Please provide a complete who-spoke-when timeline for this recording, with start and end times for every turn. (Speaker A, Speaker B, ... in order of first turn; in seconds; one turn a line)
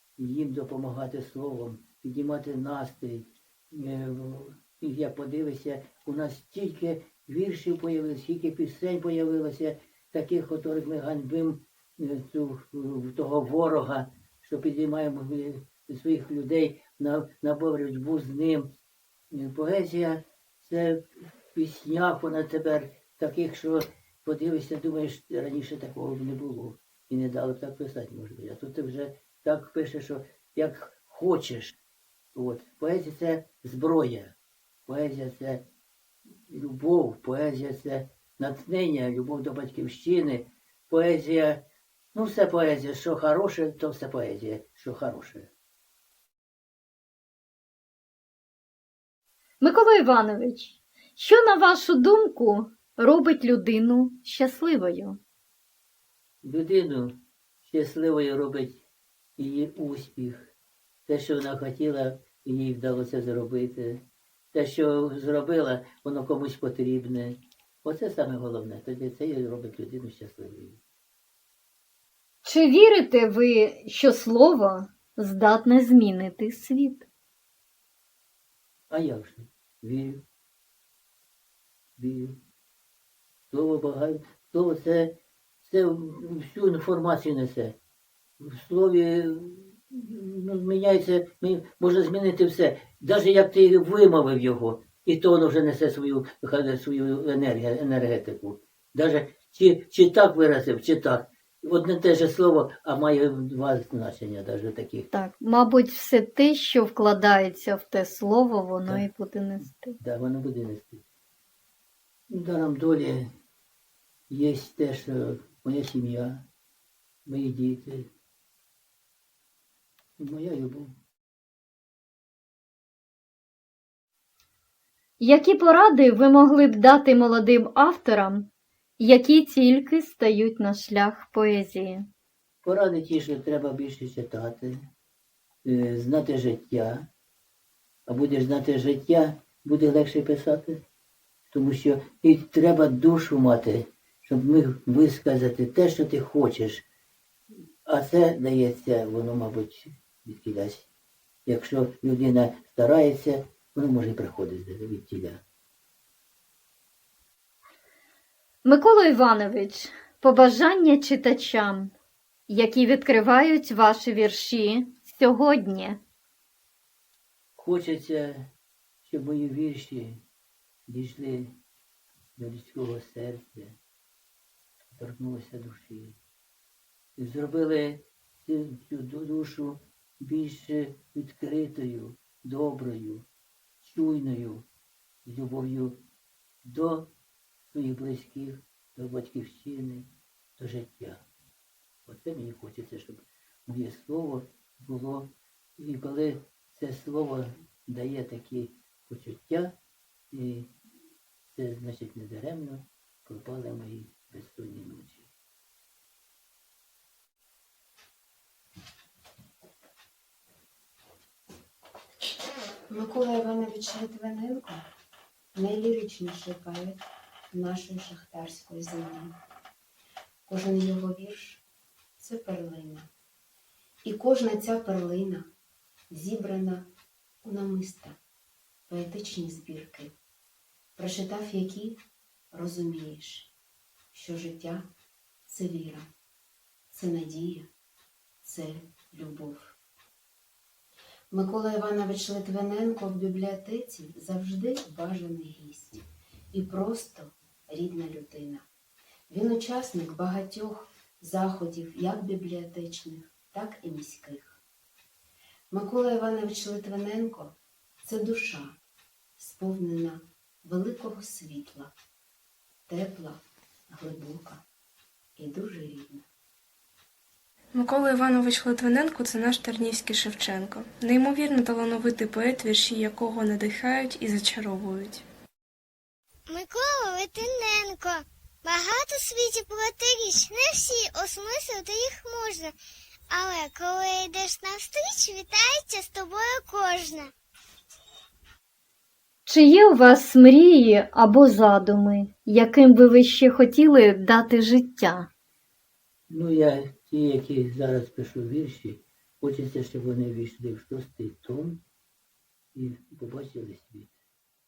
Speaker A: 0.2-18.7
Speaker A: 19.3-31.8
Speaker A: 32.4-34.3
Speaker A: 34.9-35.6
Speaker A: 36.5-45.5
Speaker B: 49.6-55.2
Speaker A: 56.4-58.8
Speaker A: 59.4-60.5
Speaker A: 61.1-64.0
Speaker A: 64.5-70.8
Speaker B: 72.4-77.1
Speaker A: 78.9-80.2
Speaker A: 82.0-82.4
Speaker A: 83.5-87.8
Speaker A: 88.4-105.1
Speaker B: 105.1-110.0
Speaker A: 110.0-111.0
Speaker A: 112.3-113.3
Speaker A: 114.3-116.5
Speaker A: 117.3-118.1
Speaker A: 120.2-120.9
Speaker B: 125.2-132.1
Speaker A: 132.6-134.7
Speaker A: 135.7-137.1
Speaker A: 138.1-140.8
Speaker A: 141.5-146.8
Speaker A: 147.9-150.9
Speaker A: 151.5-155.4
Speaker B: 158.6-161.9
Speaker B: 162.5-166.0
Speaker A: 167.6-168.5
Speaker A: 169.1-170.2
Speaker A: 170.9-171.5
Speaker A: 172.4-173.8
Speaker A: 174.9-176.2
Speaker A: 177.2-183.3
Speaker A: 183.8-184.7
Speaker A: 185.3-186.0
Speaker A: 186.6-187.1
Speaker A: 187.7-191.2
Speaker A: 192.1-199.7
Speaker A: 200.3-200.7
Speaker A: 201.5-205.3
Speaker C: 212.9-214.8
Speaker C: 215.5-219.4
Speaker C: 220.5-221.6
Speaker C: 222.2-223.1
Speaker C: 224.0-225.5
Speaker C: 226.1-226.9
Speaker C: 227.4-228.2
Speaker C: 228.9-230.2
Speaker C: 231.0-232.0
Speaker C: 232.5-233.5
Speaker C: 234.1-234.9
Speaker C: 235.5-236.0
Speaker C: 236.9-237.7
Speaker C: 238.4-239.8
Speaker C: 241.3-248.7
Speaker C: 249.3-254.6
Speaker C: 255.7-258.8
Speaker C: 259.4-261.9
Speaker C: 262.9-264.6
Speaker C: 265.4-266.3
Speaker D: 267.7-275.2
Speaker E: 276.5-282.7
Speaker E: 283.3-287.3
Speaker B: 289.5-295.3
Speaker A: 296.3-301.8
Speaker A: 302.8-304.1